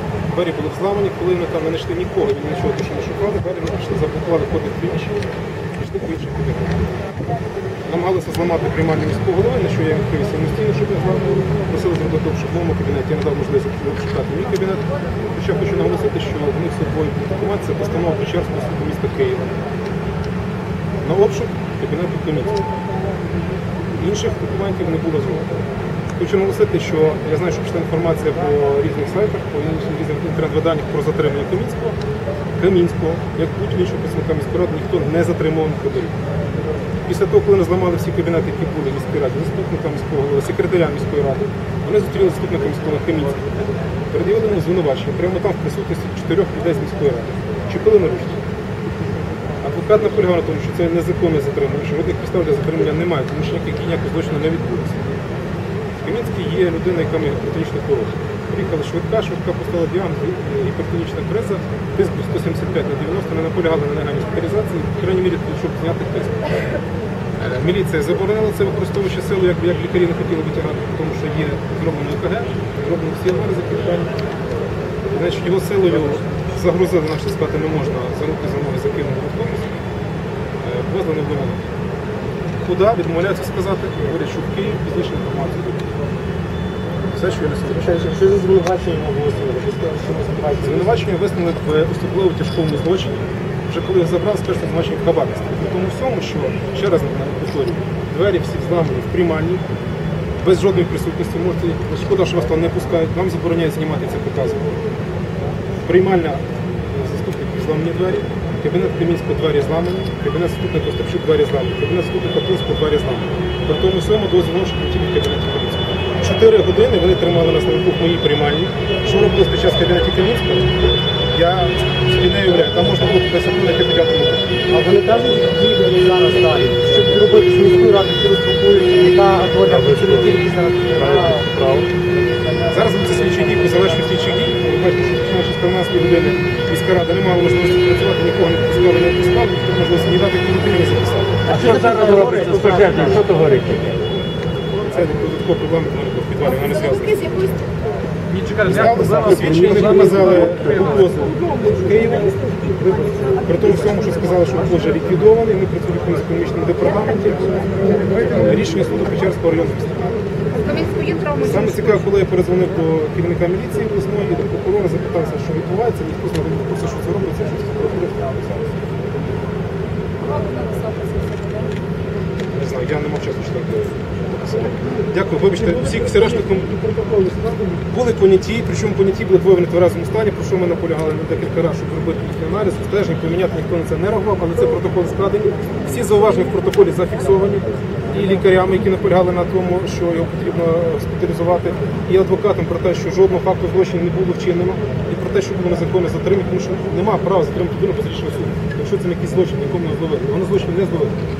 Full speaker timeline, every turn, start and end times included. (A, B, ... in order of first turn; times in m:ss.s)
0:00.3-0:06.8 A
0:07.9-0:19.6 A
0:21.0-0:22.6 A
0:24.0-0:25.5 A
0:26.2-0:32.0 A
0:32.6-0:36.2 A
0:37.0-0:43.5 A
0:44.1-0:48.4 A
0:49.6-0:55.0 A
0:56.0-1:06.5 A
1:07.4-1:14.2 A
1:15.1-1:19.7 A
1:20.6-1:21.7 A
1:22.6-1:25.9 A
1:27.1-1:28.0 A
1:27.8-1:30.9 B
1:30.6-1:39.6 A
1:40.4-1:44.6 A
1:45.8-2:00.8 A
2:01.3-2:04.6 A
2:04.7-2:11.5 B
2:09.7-2:10.4 A
2:11.0-2:11.9 A
2:12.7-2:21.4 A
2:21.5-2:23.3 B
2:21.5-2:24.0 C
2:24.8-2:27.3 A
2:26.5-2:27.7 D
2:28.3-2:30.4 B
2:28.5-2:40.2 A
2:28.8-2:30.6 C
2:40.5-2:42.0 D
2:41.4-2:48.9 A
2:50.2-2:51.7 D
2:52.5-2:56.9 A
2:56.9-2:57.6 B
2:57.7-3:21.2 A